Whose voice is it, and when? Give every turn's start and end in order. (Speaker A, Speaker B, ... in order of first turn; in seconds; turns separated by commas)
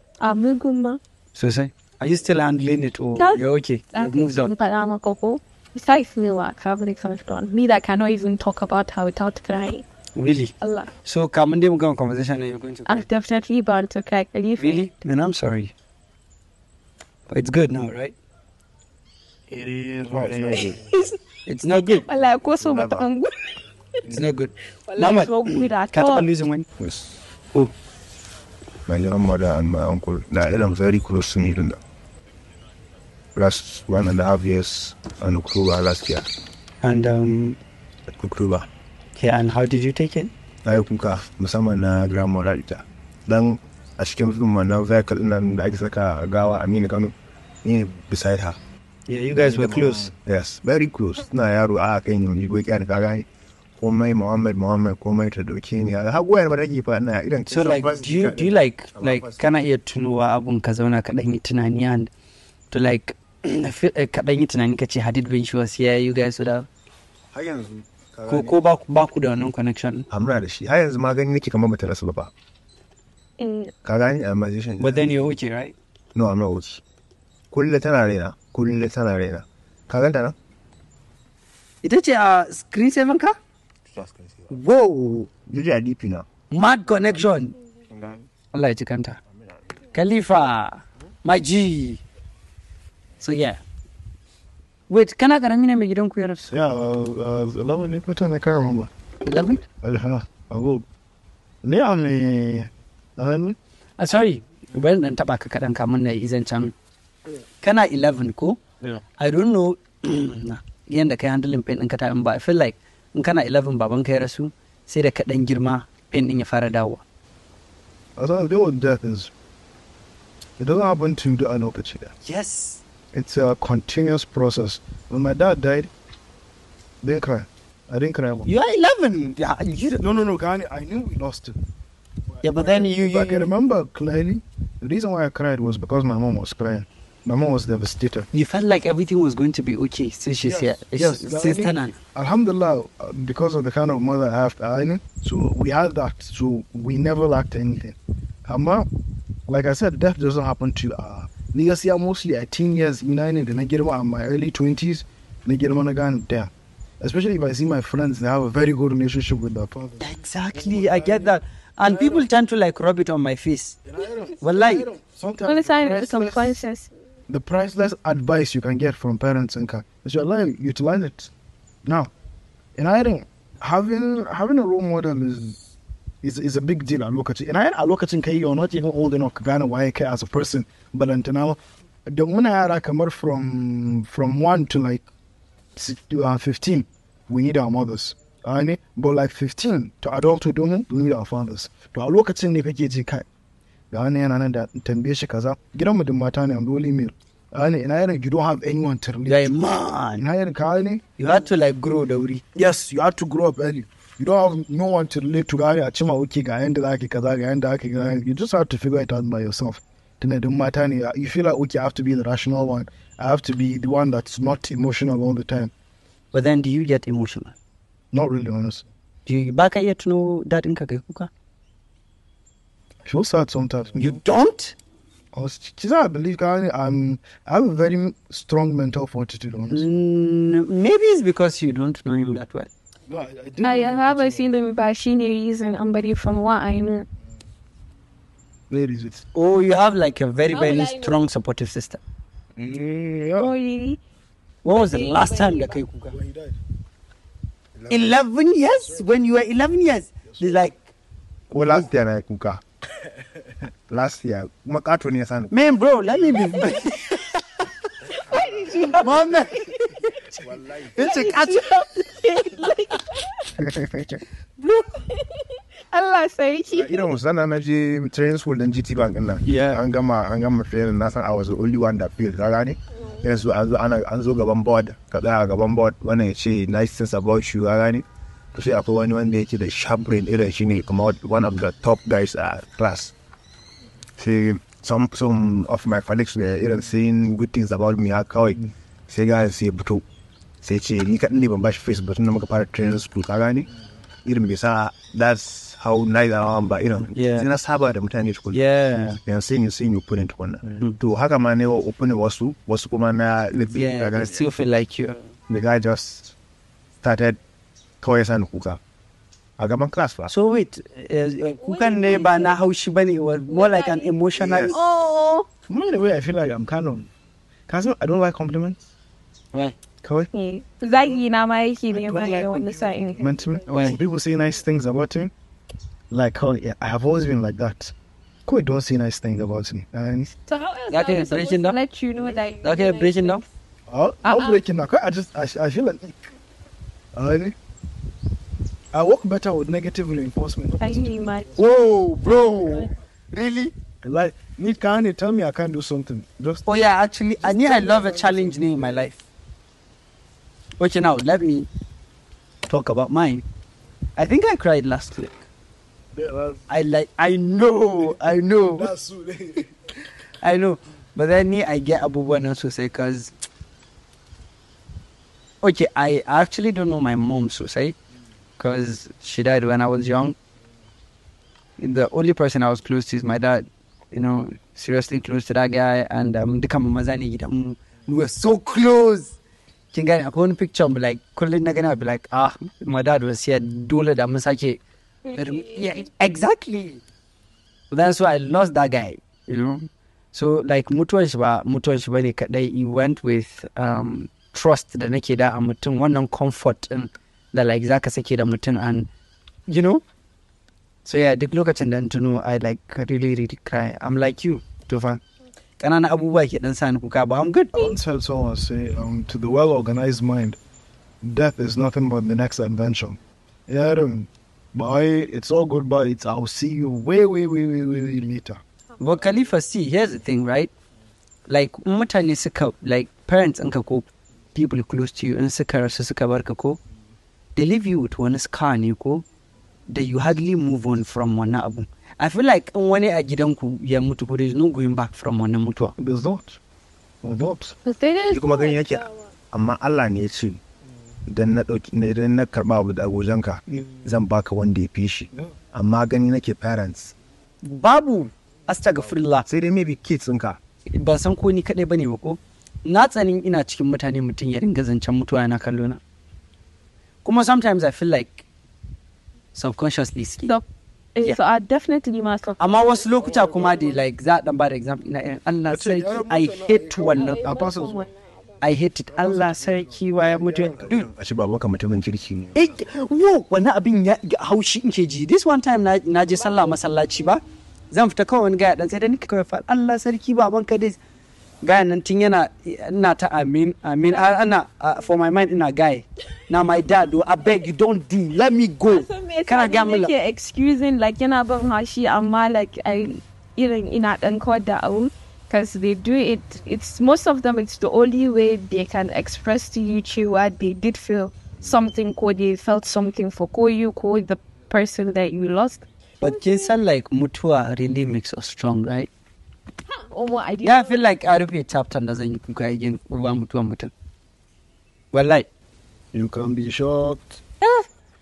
Speaker A: 0.2-1.0, Speaker B: 1.4-4.5, Speaker A: 3.2-9.8, Speaker B: 10.2-13.1, Speaker A: 10.6-10.9, Speaker A: 12.9-14.9, Speaker B: 14.6-15.7, Speaker B: 17.3-18.1, Speaker C: 19.5-20.8, Speaker D: 20.1-20.8, Speaker B: 21.4-22.1, Speaker A: 22.1-23.3, Speaker D: 22.5-23.0, Speaker B: 24.1-26.7, Speaker A: 24.9-26.3, Speaker D: 26.8-27.1, Speaker D: 28.9-31.8, Speaker D: 33.4-36.3, Speaker B: 36.8-37.6, Speaker D: 38.1-38.7, Speaker B: 39.1-40.3, Speaker D: 40.6-48.6, Speaker B: 49.1-50.1, Speaker D: 49.4-59.4, Speaker B: 57.5-62.1, Speaker B: 62.7-66.7, Speaker D: 67.3-68.6, Speaker B: 68.3-70.1, Speaker D: 70.1-72.3, Speaker A: 73.4-73.7, Speaker D: 73.8-75.2, Speaker B: 74.8-75.8, Speaker D: 76.1-76.8, Speaker D: 77.5-80.3, Speaker B: 81.8-83.4, Speaker D: 83.9-84.5, Speaker B: 84.5-85.3, Speaker D: 85.4-86.3, Speaker B: 86.5-87.5, Speaker D: 87.9-88.2, Speaker B: 88.5-89.2, Speaker B: 89.9-92.0, Speaker B: 93.2-93.6, Speaker B: 94.9-96.5, Speaker C: 96.5-98.9, Speaker B: 99.2-99.6, Speaker C: 99.8-100.9, Speaker C: 101.6-103.6, Speaker B: 104.0-106.7, Speaker B: 107.6-108.6, Speaker B: 109.2-117.0, Speaker C: 118.2-119.3, Speaker C: 120.6-122.1, Speaker B: 122.2-122.8, Speaker C: 123.1-125.9, Speaker C: 127.0-128.5, Speaker B: 128.4-130.0, Speaker C: 130.0-131.6, Speaker C: 132.3-138.3, Speaker B: 132.4-133.5, Speaker B: 138.3-141.9, Speaker C: 140.4-148.9, Speaker C: 149.5-162.3, Speaker B: 160.0-163.8, Speaker C: 163.9-166.5, Speaker B: 164.4-164.9, Speaker A: 165.4-166.9, Speaker C: 167.3-171.3, Speaker C: 171.8-172.1, Speaker C: 172.8-175.6, Speaker C: 176.2-185.1, Speaker C: 185.8-193.2, Speaker C: 193.9-199.5, Speaker B: 199.2-200.2, Speaker C: 200.2-201.0, Speaker B: 201.2-202.4, Speaker C: 202.5-215.7, Speaker B: 216.3-217.5, Speaker C: 218.1-218.8, Speaker B: 219.2-221.3, Speaker C: 223.0-224.2, Speaker B: 223.9-224.8, Speaker C: 225.3-229.9, Speaker B: 229.7-232.7, Speaker C: 233.1-234.5, Speaker A: 233.6-237.1, Speaker C: 238.7-239.2, Speaker B: 239.3-242.0, Speaker A: 240.5-241.1, Speaker C: 242.6-243.5, Speaker A: 243.4-244.0, Speaker B: 244.6-246.2, Speaker A: 244.8-245.8, Speaker C: 246.1-246.6, Speaker B: 247.9-250.9, Speaker D: 251.5-252.6, Speaker D: 253.9-255.5, Speaker B: 255.5-257.7, Speaker A: 258.2-259.7, Speaker B: 258.8-260.1, Speaker B: 260.7-261.9, Speaker A: 260.9-263.5, Speaker D: 263.6-264.2, Speaker B: 264.6-265.0, Speaker A: 265.9-267.1, Speaker D: 266.7-283.1, Speaker B: 269.4-269.8, Speaker D: 284.2-290.0, Speaker D: 290.6-293.7, Speaker D: 294.2-298.6, Speaker B: 297.1-297.5, Speaker B: 298.5-299.2, Speaker D: 299.2-304.4, Speaker B: 303.7-305.2, Speaker D: 305.5-306.4, Speaker D: 307.0-307.4, Speaker D: 308.0-308.8, Speaker D: 309.6-310.3, Speaker B: 310.3-314.8, Speaker A: 311.6-312.5, Speaker A: 313.5-314.1, Speaker D: 314.4-314.8, Speaker A: 314.7-315.4, Speaker C: 315.7-317.1, Speaker C: 317.7-318.8, Speaker A: 320.3-323.4, Speaker C: 321.9-325.3, Speaker B: 323.7-324.0, Speaker C: 326.1-327.9, Speaker C: 328.4-330.3, Speaker A: 330.5-333.4, Speaker B: 330.9-331.8, Speaker B: 332.5-333.4, Speaker C: 333.9-336.2, Speaker A: 334.2-334.6, Speaker C: 337.1-337.6, Speaker C: 338.9-341.1, Speaker A: 340.8-341.6, Speaker B: 341.6-343.7, Speaker C: 344.0-346.7, Speaker B: 346.6-349.2, Speaker C: 347.4-349.1, Speaker B: 350.8-351.7, Speaker B: 352.7-353.4, Speaker B: 354.2-355.4, Speaker C: 356.1-356.6, Speaker B: 356.7-358.9, Speaker C: 358.6-359.9, Speaker B: 360.4-363.3, Speaker B: 365.6-367.9, Speaker B: 368.6-370.4, Speaker B: 371.8-379.4, Speaker B: 379.9-387.0, Speaker B: 387.9-399.1, Speaker B: 399.7-400.0, Speaker B: 401.1-405.2, Speaker B: 405.8-407.9, Speaker C: 407.7-410.6, Speaker C: 411.2-418.6, Speaker B: 419.0-420.7, Speaker B: 421.5-426.8, Speaker B: 427.6-429.2, Speaker B: 429.9-435.9, Speaker C: 436.0-436.6, Speaker C: 437.2-437.7, Speaker A: 437.9-439.1, Speaker D: 438.3-440.6, Speaker D: 441.2-447.1, Speaker B: 447.6-449.5, Speaker D: 449.4-450.6, Speaker B: 450.9-456.0, Speaker B: 457.2-458.4, Speaker B: 459.6-460.5, Speaker A: 460.5-462.6, Speaker B: 462.6-467.7, Speaker C: 465.7-468.1, Speaker A: 467.1-468.1, Speaker B: 468.6-471.1, Speaker C: 469.2-471.0, Speaker D: 470.9-472.7, Speaker B: 472.6-481.0, Speaker B: 481.6-490.1, Speaker A: 488.9-506.7, Speaker B: 506.2-509.1, Speaker A: 510.0-511.0, Speaker B: 510.6-513.9, Speaker B: 515.1-515.5, Speaker C: 516.1-517.4, Speaker B: 517.6-517.9